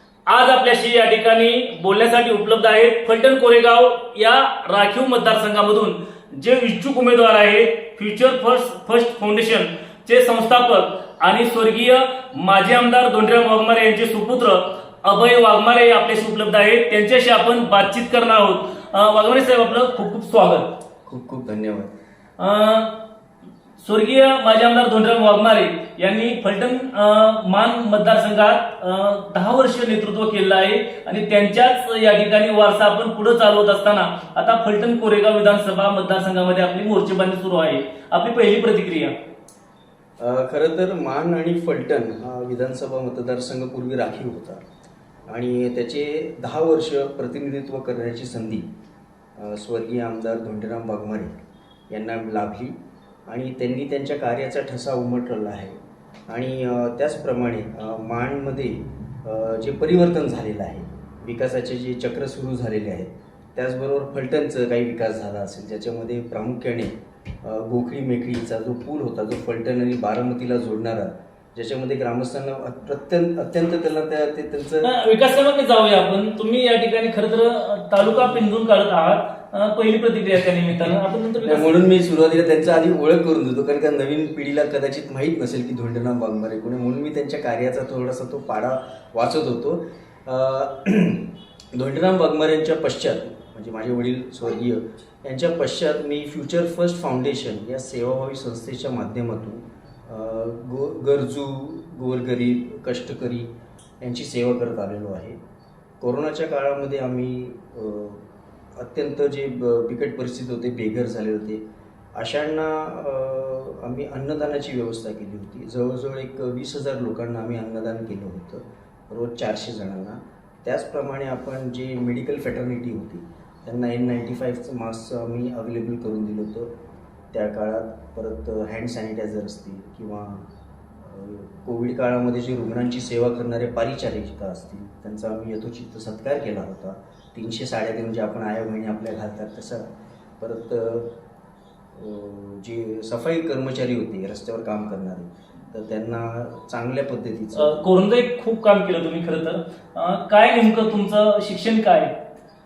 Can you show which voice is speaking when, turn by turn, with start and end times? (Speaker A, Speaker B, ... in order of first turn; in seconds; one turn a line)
Speaker A: 0.3-20.7
Speaker B: 21.1-21.9
Speaker A: 22.4-23.0
Speaker A: 23.8-39.2
Speaker B: 40.2-44.6
Speaker B: 45.3-48.7
Speaker B: 49.4-51.4
Speaker B: 51.9-52.8
Speaker B: 53.3-55.8
Speaker B: 56.3-74.9
Speaker A: 74.8-81.8
Speaker B: 81.4-103.5
Speaker B: 104.0-105.4
Speaker B: 106.0-108.2
Speaker B: 108.8-111.6
Speaker B: 112.2-126.7
Speaker B: 127.3-130.5
Speaker B: 131.0-139.9
Speaker B: 140.4-141.1
Speaker B: 141.9-147.9
Speaker A: 147.6-152.1